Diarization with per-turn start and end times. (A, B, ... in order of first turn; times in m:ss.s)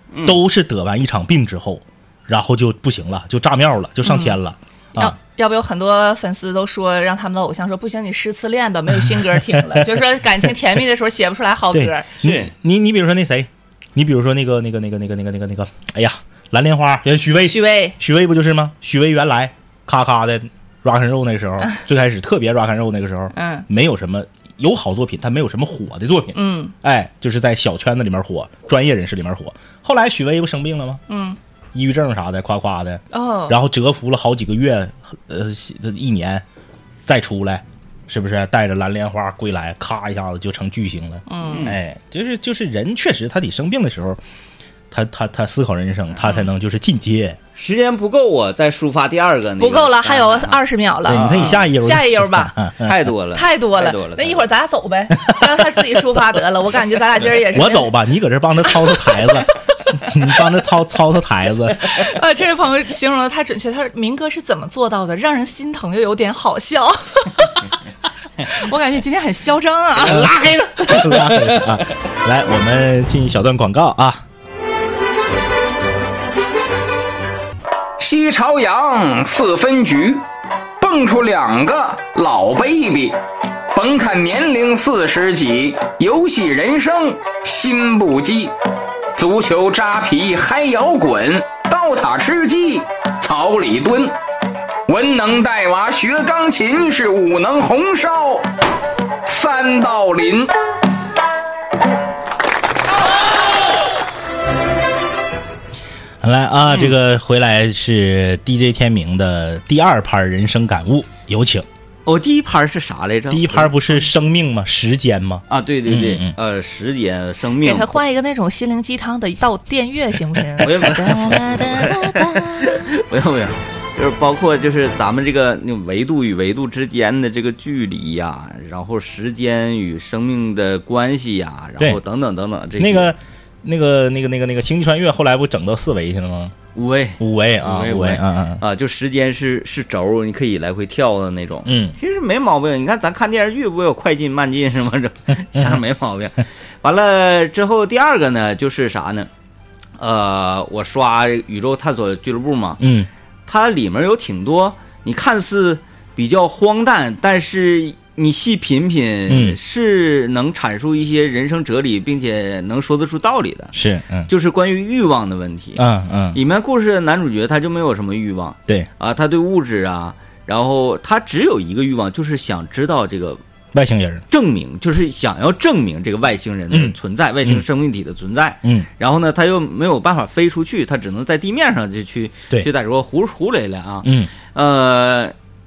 0:00.1-0:00.4 A
0:00.2-0:05.2 B
0:04.0-0:04.4 C
0:05.0-0:12.1 C
0:09.2-0:10.5 B
0:11.7-0:31.0 B
0:12.2-0:12.5 A
0:17.5-0:18.0 C
0:23.4-0:23.7 C
0:26.3-0:26.7 C
0:31.1-0:31.4 C
0:31.7-0:36.4 B
0:33.1-0:33.6 C
0:37.1-0:44.2 B
0:41.3-0:41.7 C
0:41.4-0:41.8 A
0:44.9-0:47.4 B
0:47.6-0:51.6 A
0:49.6-0:52.5 C
0:51.1-0:52.9 B
0:52.8-0:54.4 A
0:53.3-0:57.9 C
0:55.2-0:55.8 B
0:57.5-1:02.1 B
0:58.9-0:59.3 C
1:01.9-1:07.7 C
1:08.5-1:10.3 C
1:10.0-1:11.8 A
1:10.1-1:14.2 B
1:18.0-1:20.2 D
1:20.8-1:23.2 D
1:23.7-1:28.5 D
1:29.2-1:34.2 D
1:34.9-1:38.5 D
1:39.2-1:40.5 D
1:46.2-1:51.7 B
1:52.1-1:54.0 A
1:53.3-1:56.4 B
1:55.5-1:58.0 A
1:57.6-2:02.8 C
2:00.6-2:13.1 A
2:12.8-2:16.6 B
2:16.8-2:29.3 A
2:17.2-2:18.6 B
2:21.7-2:22.0 B
2:30.0-2:32.8 A
2:32.8-2:33.1 B
2:33.5-2:43.7 A
2:39.3-2:39.6 B
2:43.7-2:44.3 B
2:44.3-2:45.8 A
2:45.8-2:46.4 B
2:46.3-2:53.4 A
2:53.7-2:54.2 B
2:54.3-3:05.3 A
2:56.7-2:57.6 B
3:04.0-3:04.3 B